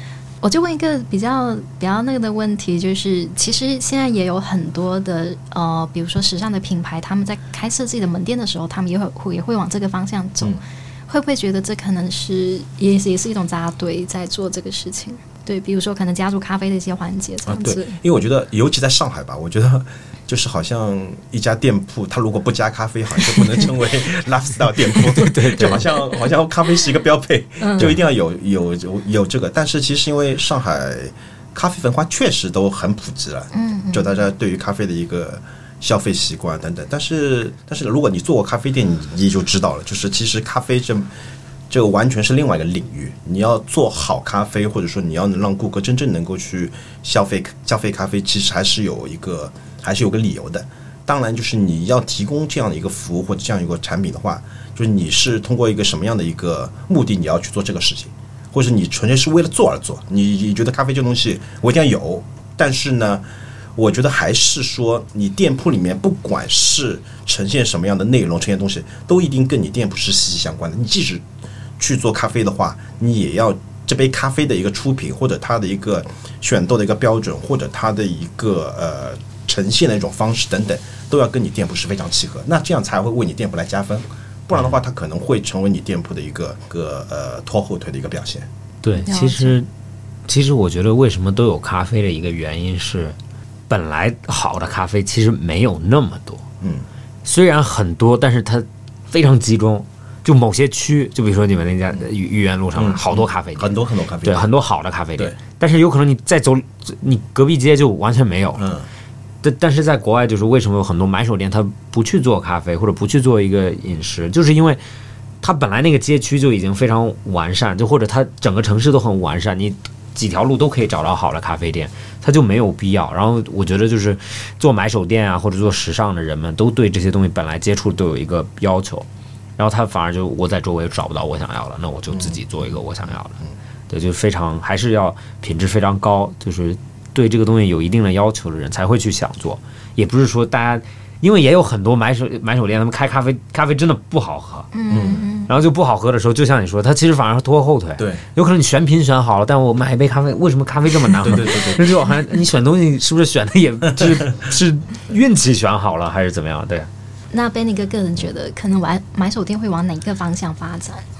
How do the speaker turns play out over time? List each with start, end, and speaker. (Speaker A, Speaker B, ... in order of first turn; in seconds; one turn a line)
Speaker A: 0.4-18.0
Speaker B: 17.5-41.1
Speaker C: 24.9-25.8
Speaker A: 27.6-28.0
Speaker A: 33.5-34.1
Speaker B: 41.7-63.2
Speaker B: 63.8-71.2
Speaker B: 71.8-88.5
Speaker C: 88.8-89.7
Speaker A: 89.1-89.6
Speaker C: 90.3-93.2
Speaker C: 93.7-96.4
Speaker B: 96.6-96.8
Speaker C: 97.2-103.7
Speaker B: 102.8-104.4
Speaker C: 104.2-108.6
Speaker B: 108.6-108.9
Speaker C: 109.4-114.8
Speaker C: 115.4-144.7
Speaker B: 132.1-132.6
Speaker A: 144.7-145.5
Speaker B: 144.9-145.2
Speaker C: 145.5-156.9
Speaker B: 148.0-148.2
Speaker B: 151.2-151.9
Speaker A: 157.3-161.1